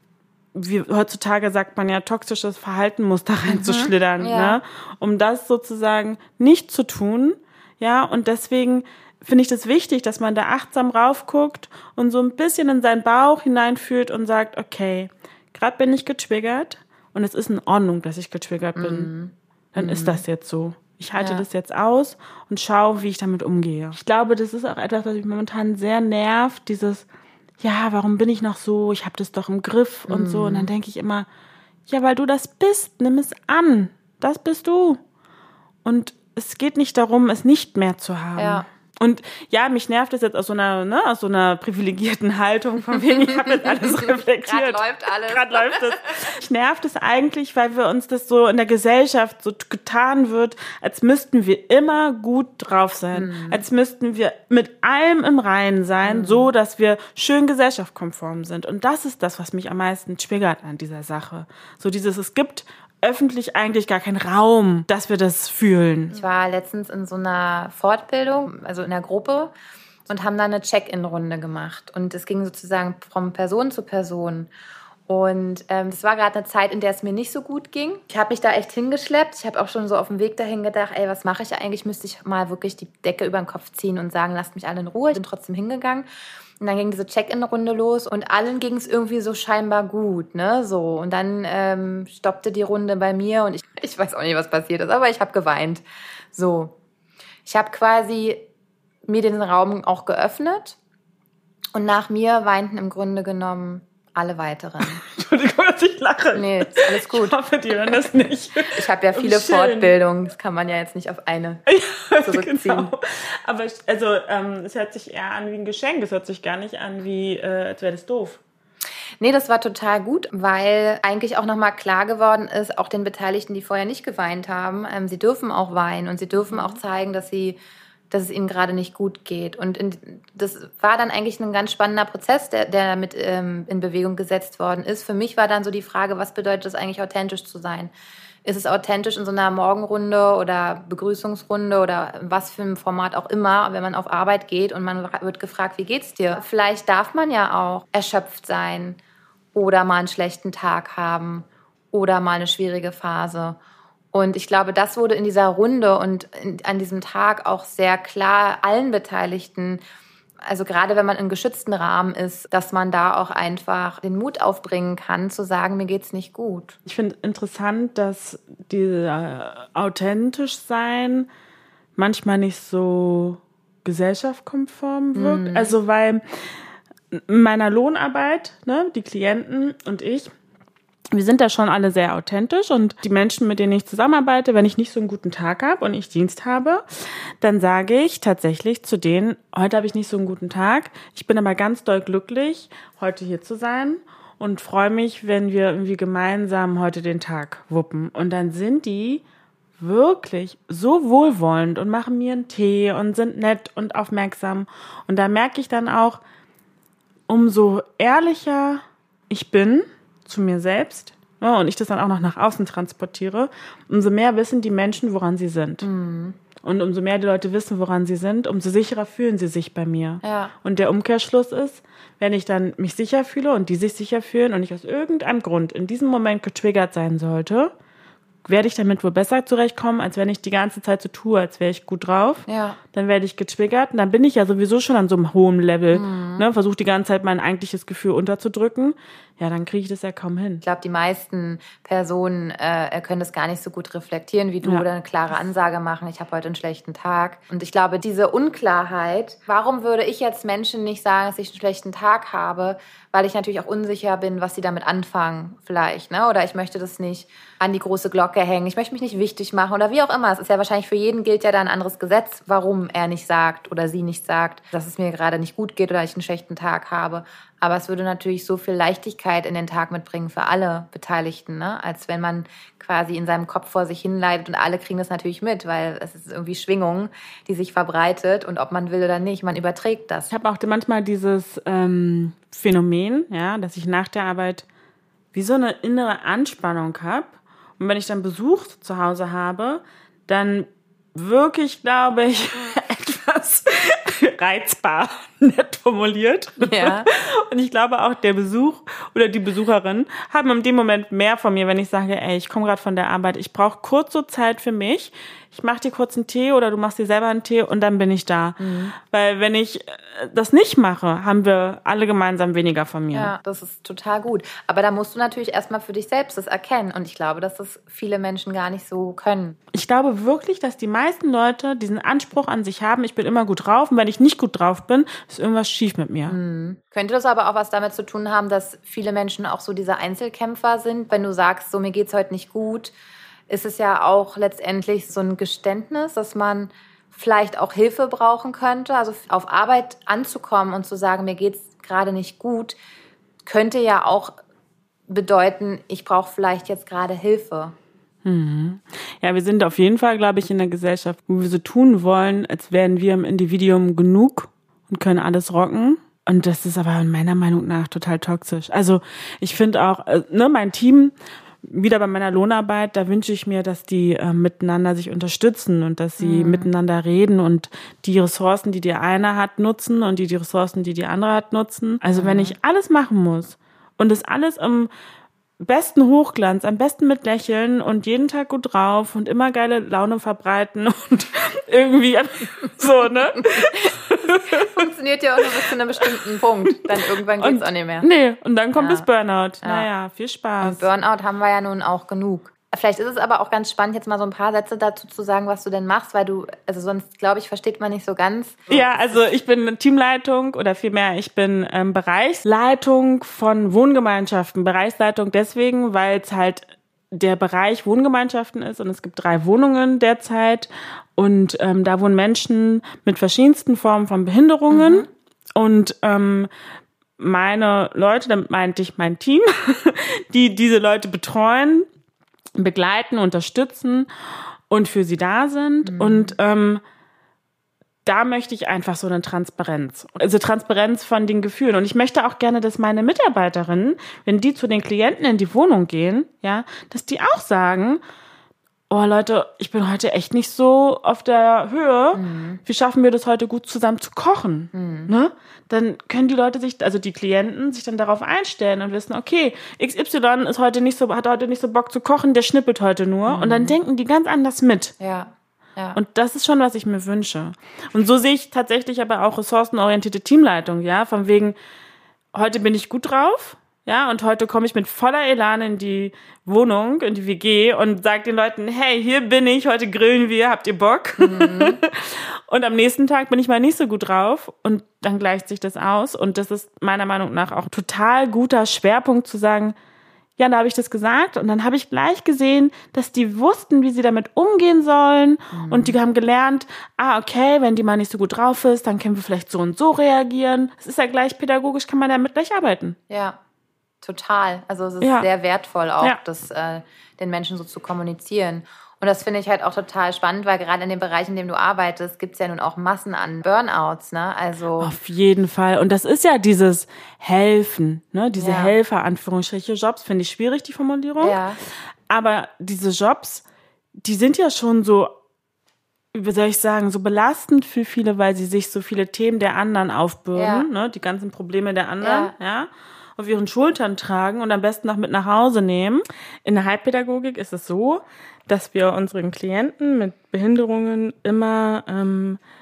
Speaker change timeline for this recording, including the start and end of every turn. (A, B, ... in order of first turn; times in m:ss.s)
0:00.5-0:19.1 A
0:03.5-0:04.6 B
0:18.8-0:20.2 B
0:19.7-0:27.1 A
0:21.2-0:21.5 B
0:27.6-0:31.3 A
0:30.1-0:30.7 B
0:31.9-0:35.0 A
0:35.8-1:06.2 A
0:38.4-0:38.7 B
0:43.1-0:46.1 B
0:53.1-0:53.6 B
0:56.0-0:56.5 B
1:06.1-1:09.5 B
1:10.1-1:14.5 B
1:15.1-1:26.1 B
1:26.6-1:36.8 B
1:37.4-1:38.4 B
1:39.1-1:40.8 B
1:41.7-1:45.0 B
1:44.8-1:49.9 A
1:46.3-1:48.0 B
1:48.7-1:51.6 B
1:51.7-1:58.4 A
1:52.2-1:52.9 B
1:59.2-2:07.6 B
2:06.5-2:06.8 A
2:08.1-2:17.9 B
2:18.4-2:29.0 B
2:29.5-2:33.6 B
2:34.1-2:39.8 B
2:40.4-2:46.8 B
2:46.9-2:51.3 A
2:52.0-2:56.5 A
2:55.2-2:55.8 B
2:57.1-3:00.3 A
3:01.1-3:06.8 A
3:07.4-3:19.2 A
3:19.8-3:26.2 A
3:27.3-3:35.9 A
3:35.8-3:36.4 B
3:36.6-3:47.7 A
3:40.2-3:40.5 B
3:48.4-4:00.6 A
3:52.5-3:52.8 B
3:55.9-3:56.4 B
4:00.6-4:40.3 B
4:40.3-4:44.6 A
4:45.3-5:13.3 A
4:56.6-4:57.1 B
5:08.6-5:08.9 B
5:13.1-5:19.6 B
5:19.7-5:26.4 A
5:26.3-5:33.0 B
5:33.5-5:42.8 B
5:43.4-5:44.4 B
5:45.1-5:47.8 B
5:48.2-6:14.9 A
6:06.2-6:06.7 B
6:12.2-6:12.6 B
6:15.6-6:24.9 A
6:23.7-6:28.1 B
6:25.4-6:25.7 A
6:27.4-6:30.9 A
6:28.8-6:29.1 B
6:29.6-6:29.9 B
6:30.6-6:39.3 B
6:38.7-6:56.5 A
6:54.7-6:55.1 B
6:57.2-7:01.9 A
7:02.6-7:04.1 A
7:04.7-7:06.8 A
7:05.8-7:06.4 B
7:08.0-7:18.0 A
7:18.9-7:34.9 A
7:22.1-7:22.6 B
7:24.7-7:25.1 B
7:33.3-7:33.8 B
7:35.0-7:36.0 B
7:35.9-7:41.6 A
7:42.3-7:59.8 A
7:51.2-7:51.8 B
8:00.4-8:13.0 A
8:05.5-8:06.0 B
8:13.1-8:13.4 B
8:14.0-8:24.9 B
8:15.0-8:15.3 A
8:24.8-8:31.4 A
8:28.4-8:28.8 B
8:31.2-8:31.6 B
8:32.1-8:33.4 A
8:34.0-8:35.1 A
8:36.1-8:52.4 A
8:40.4-8:40.7 B
8:42.0-8:42.3 B